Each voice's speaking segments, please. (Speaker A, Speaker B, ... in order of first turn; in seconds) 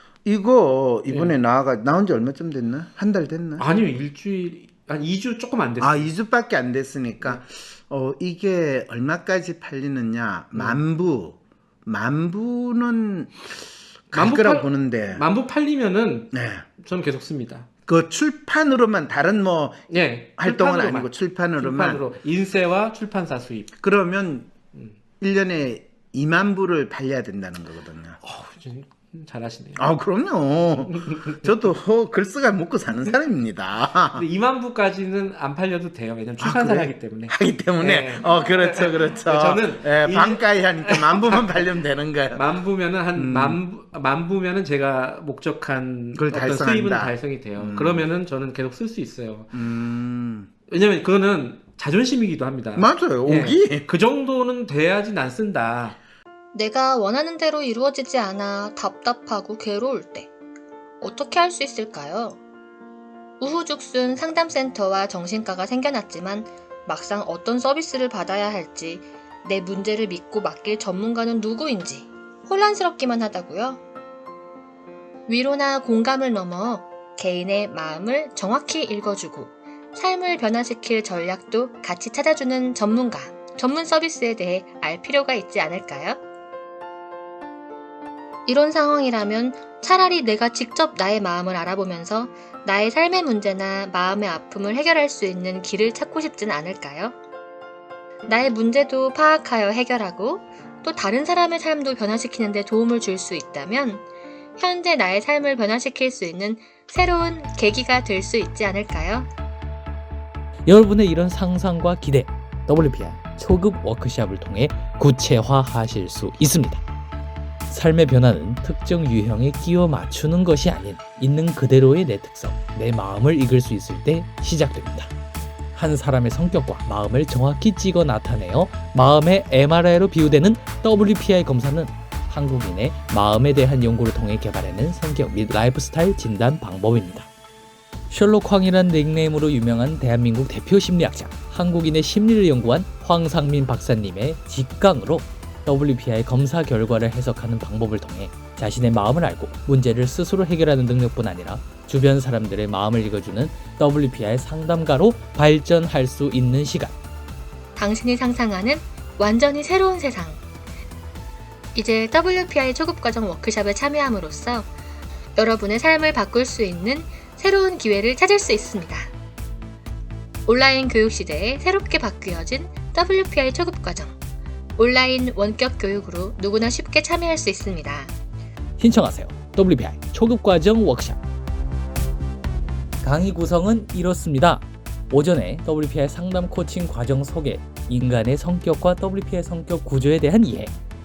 Speaker A: 0.2-3.6, 5.8-15.2, 16.3-16.6, 17.9-19.8, 20.4-22.0, 23.8-24.5, 25.2-28.2, 29.8-34.2, 36.4-42.4, 43.1-43.6, 46.1-48.1, 49.5-50.5, 52.8-53.9
Speaker B: 3.6-6.1, 10.5-10.8, 14.1-17.7, 19.9-23.7, 28.2-29.9, 31.0-31.4, 34.1-41.6, 42.3-49.5, 50.7-56.0
Speaker C: 56.5-60.3, 61.0-62.4, 63.4-73.8, 75.3-86.2, 88.5-97.2, 98.3-104.0, 104.6-109.3, 157.8-160.4, 161.8-164.7, 165.4-169.1, 170.5-174.2, 174.8-178.1
Speaker D: 110.7-116.8, 117.7-125.1, 125.8-137.3, 138.1-156.9, 178.8-181.2, 183.0-190.7